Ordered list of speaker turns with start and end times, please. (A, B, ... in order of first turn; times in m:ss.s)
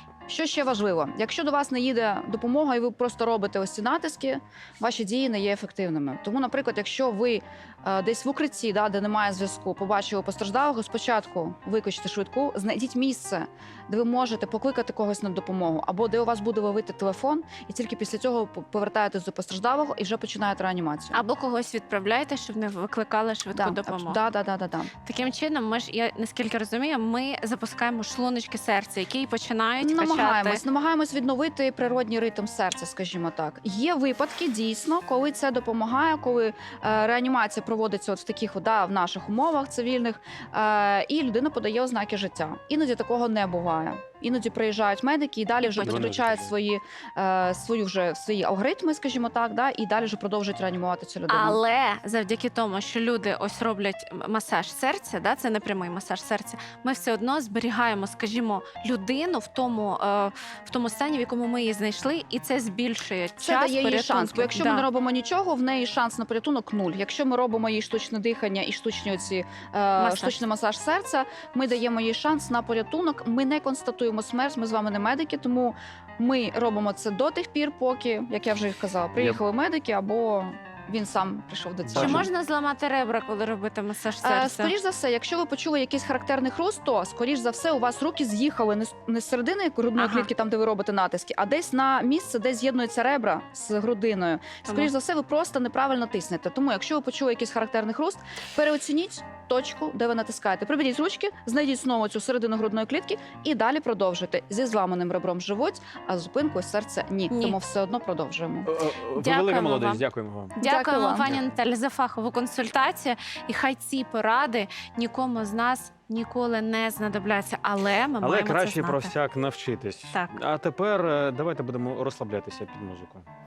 0:00.3-0:21.2 A
0:21.1-0:24.2 B
0:23.5-0:24.9 A
0:25.0-0:30.6 B
0:29.8-0:51.6 A
0:45.6-0:46.1 B
0:45.8-0:46.5 C
0:51.3-1:04.8 B
1:03.4-1:22.3 A
1:10.0-1:10.4 B
1:21.8-1:22.3 C
1:21.9-1:24.7 B
1:24.2-1:48.7 A
1:30.0-1:30.3 B
1:34.6-1:34.9 B
1:47.3-1:47.6 B
1:48.6-1:50.5 C
1:49.2-1:50.0 B
1:50.6-1:51.3 A
1:50.6-1:59.1 B
1:58.2-2:03.2 C
2:00.1-2:00.4 B